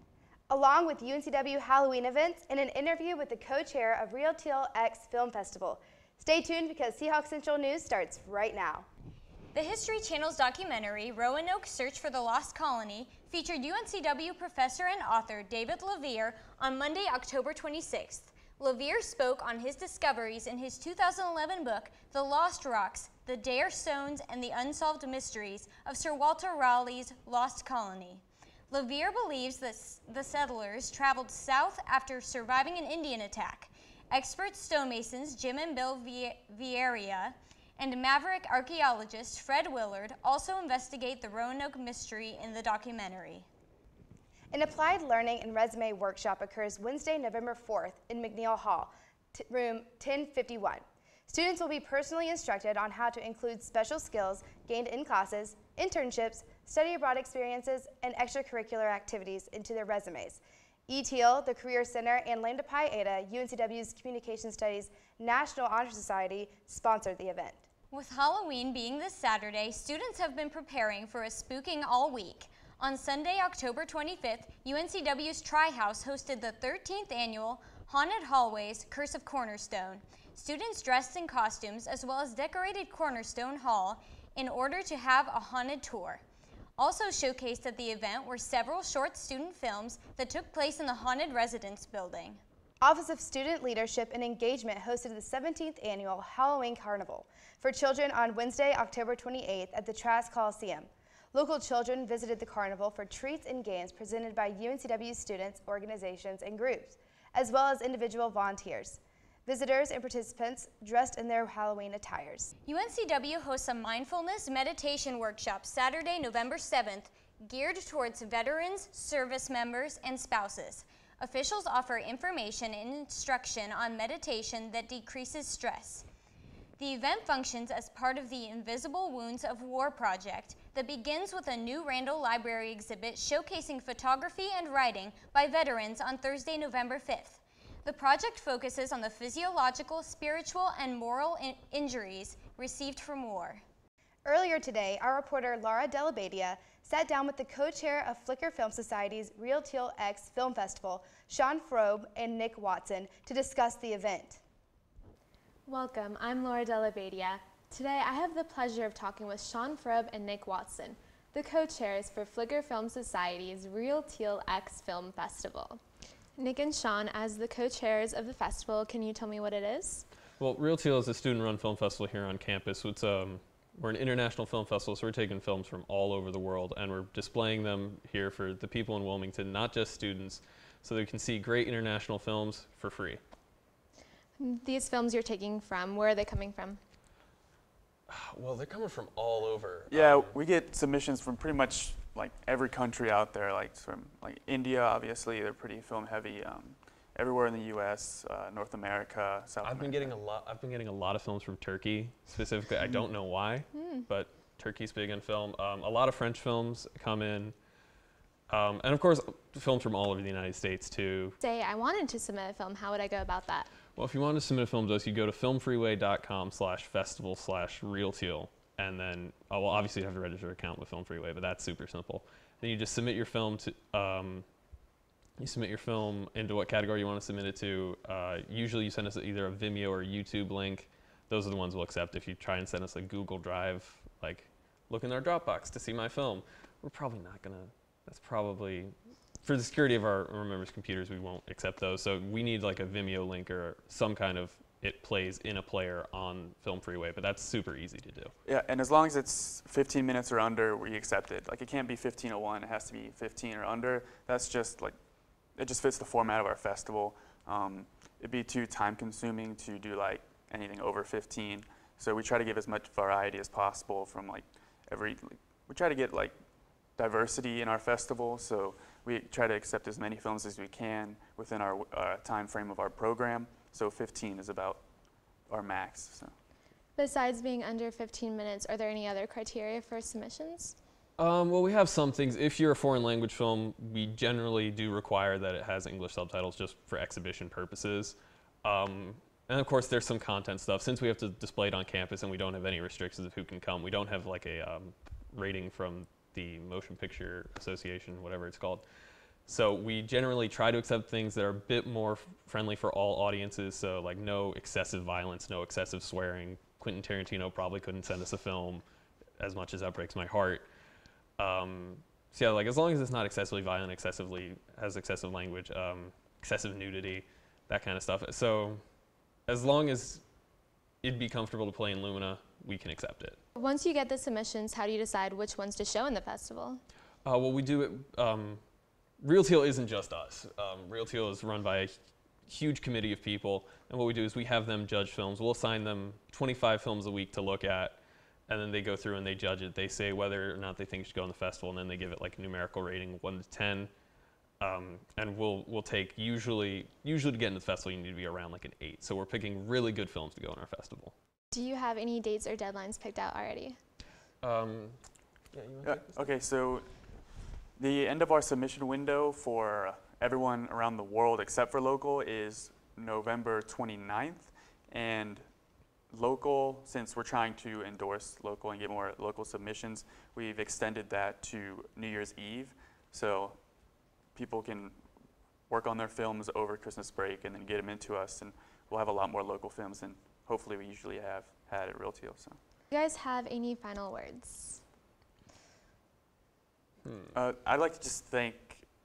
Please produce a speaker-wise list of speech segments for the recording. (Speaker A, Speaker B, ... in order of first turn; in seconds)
Speaker A: 0.5-8.9, 44.5-67.6, 92.8-112.5, 144.2-154.4
Speaker B: 9.5-43.5, 67.9-86.2, 86.8-92.4, 112.7-126.1, 126.8-143.6
Speaker C: 155.7-165.8, 166.3-170.1, 184.4-186.8, 203.7-204.0, 211.4-213.7, 276.9-280.8, 323.6-326.8, 351.5-353.8, 382.9-384.8
Speaker D: 170.4-183.2, 188.1-190.3, 199.6-207.5, 208.5-211.4, 213.9-224.4, 225.4-248.3, 281.2-298.8, 299.4-308.8, 309.4-310.7, 311.4-318.8, 319.5-320.2, 321.0-323.4, 327.2-328.6, 329.2-331.9, 332.4-343.9, 344.6-351.1, 354.4-356.3, 387.0-387.3
Speaker E: 189.9-200.2, 248.4-255.0, 255.5-266.4, 266.9-274.8, 275.5-276.3, 355.8-356.9, 357.8-365.5, 366.1-373.6, 374.3-375.0, 375.7-382.6, 387.3-388.9